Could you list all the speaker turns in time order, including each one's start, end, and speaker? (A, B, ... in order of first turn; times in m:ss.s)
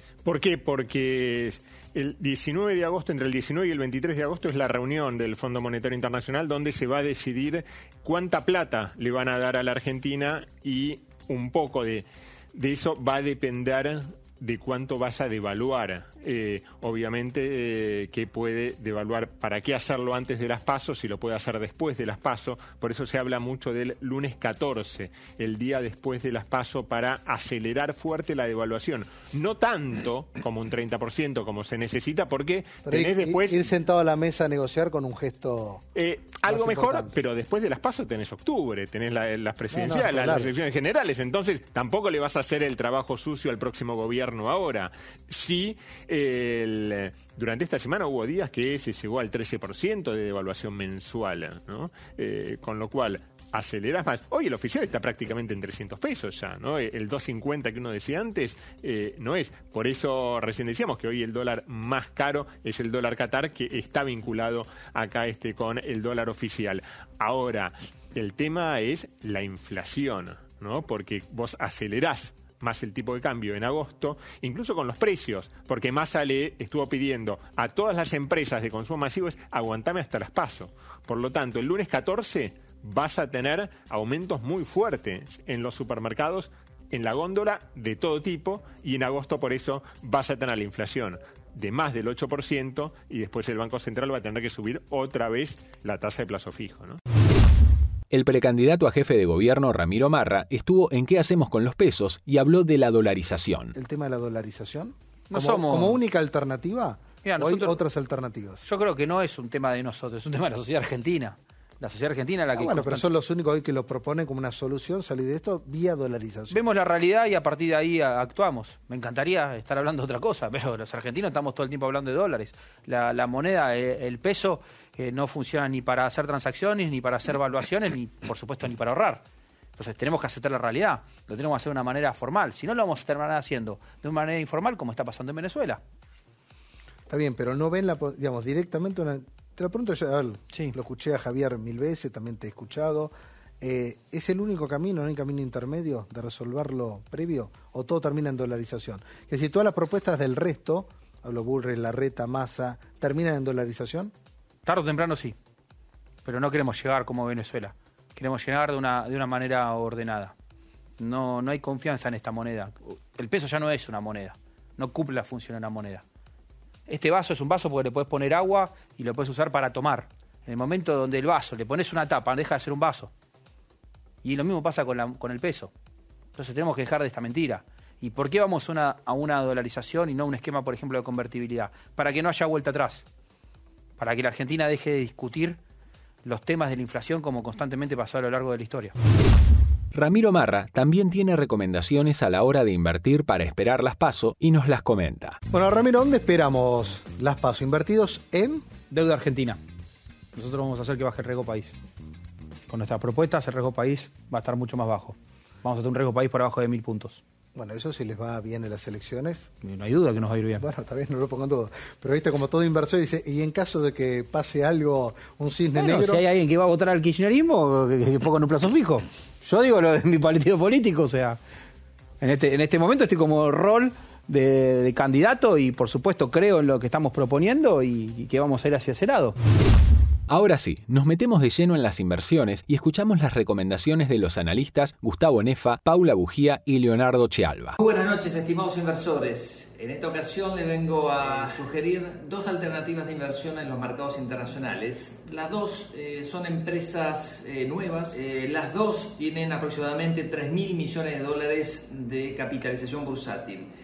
0:00.2-0:33.7 A
0:32.8-0:35.8 B
0:35.9-1:37.0 A
0:36.5-0:37.2 B
0:39.7-0:40.5 B
1:38.1-1:43.7 C
1:43.7-1:48.6 B
1:45.3-1:46.0 D
1:47.2-1:47.8 D
1:48.6-1:53.0 D
1:52.5-1:56.6 B
1:56.5-2:09.2 D
2:09.8-2:15.8 D
2:17.1-2:34.1 B
2:34.6-2:35.4 D
2:36.2-2:40.3 D
2:41.0-2:46.0 D
2:46.9-2:53.1 D
2:54.2-2:55.7 D
2:56.4-3:03.0 D
3:04.0-3:05.6 D
3:06.2-3:08.9 D
3:09.9-3:15.4 C
3:15.5-3:18.6 B
3:18.9-3:19.6 D
3:20.4-3:21.8 D
3:22.7-3:27.2 D
3:27.5-3:29.5 B
3:29.6-3:30.6 D
3:30.6-3:36.2 B
3:35.7-3:41.4 D
3:42.2-3:49.4 D
3:50.3-3:57.8 C
3:57.8-4:13.7 E